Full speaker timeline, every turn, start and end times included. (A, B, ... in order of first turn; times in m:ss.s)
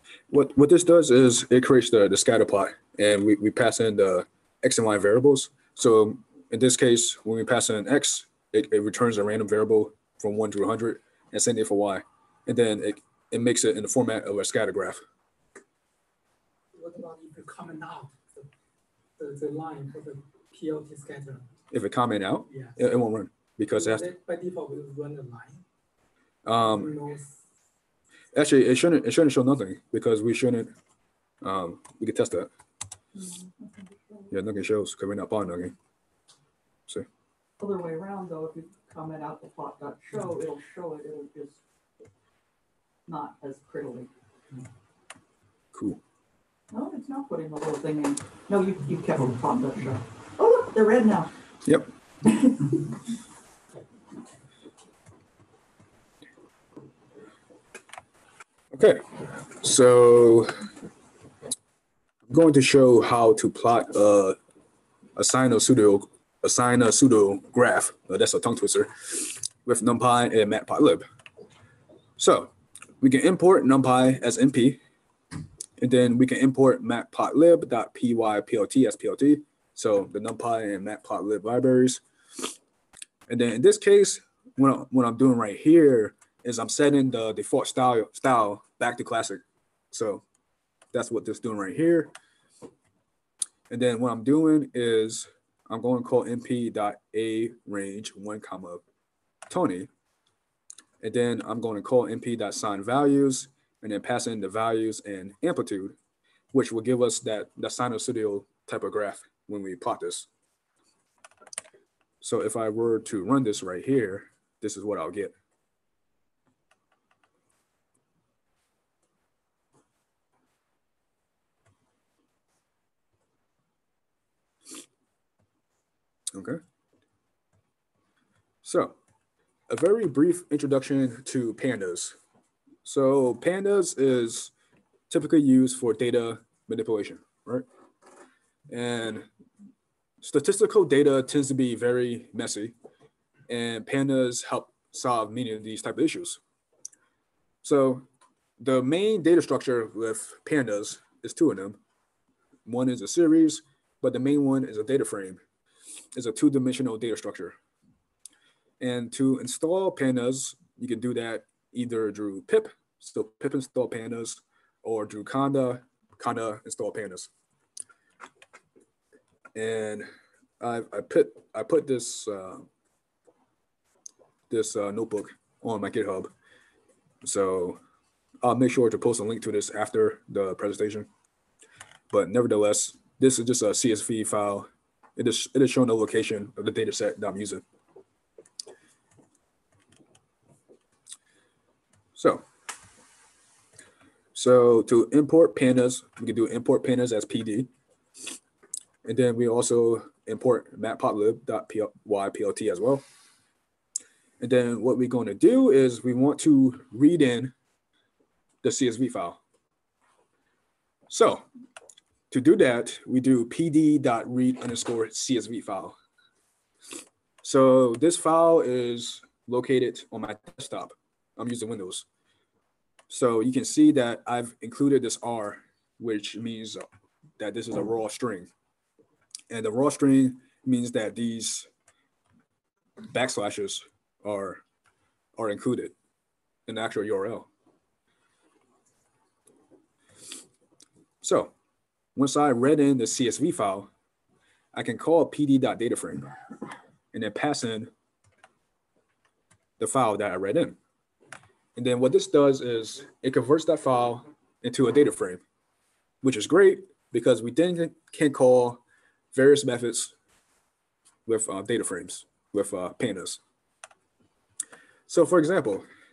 0:00.3-0:15.0 A
0:16.7-0:18.5 B
0:19.2-0:21.5 B
0:21.7-0:24.1 A
0:22.5-0:22.8 B
0:23.7-0:25.6 B
0:26.4-0:27.0 A
0:26.6-0:27.4 B
0:28.3-0:30.7 A
0:31.4-0:32.5 A
0:33.2-0:33.9 C
0:34.3-0:35.7 A
0:37.6-0:41.6 C
0:43.1-0:44.1 C
0:45.7-0:46.0 A
0:46.7-0:51.3 C
0:58.7-1:00.5 A
1:02.3-1:04.4 A
1:05.2-1:11.0 A
1:12.2-1:14.8 A
1:15.8-1:22.0 A
1:23.3-1:30.2 A
1:30.9-1:32.1 A
1:33.7-1:38.8 A
1:39.5-1:39.9 A
1:41.0-1:46.0 A
1:46.5-1:50.3 A
1:52.2-1:55.3 A
2:06.3-2:06.6 A
2:08.6-2:09.0 A
2:09.7-2:12.2 A
2:12.8-2:14.5 A
2:15.1-2:17.6 A
2:18.7-2:19.3 A
2:20.2-2:22.7 A
2:23.5-2:26.4 A
2:27.6-2:28.0 A
2:28.6-2:31.8 A
2:32.6-2:35.4 A
2:36.1-2:37.6 A
2:38.8-2:47.3 A
2:49.5-2:50.1 A
2:50.6-2:52.7 A
2:54.5-2:56.3 A
2:57.2-2:57.8 A
2:58.4-3:01.1 A
3:02.1-3:07.6 A
3:12.1-3:12.4 A
3:14.3-3:17.7 A
3:19.0-3:23.0 A
3:24.4-3:27.5 A
3:28.6-3:29.4 A
3:31.1-3:31.4 A
3:32.3-3:36.0 A
3:37.4-3:42.0 A
3:43.1-3:46.8 A
3:47.4-3:48.5 A
3:49.5-3:51.7 A
3:53.1-3:54.6 A
3:55.4-3:55.9 A
3:56.7-3:57.5 A
4:01.2-4:01.5 A
4:02.1-4:03.9 A
4:04.7-4:06.4 A
4:07.1-4:07.9 A
4:09.8-4:10.8 A
4:11.8-4:15.4 A
4:16.2-4:18.8 A
4:19.3-4:20.1 A
4:21.2-4:23.4 A
4:25.1-4:25.8 A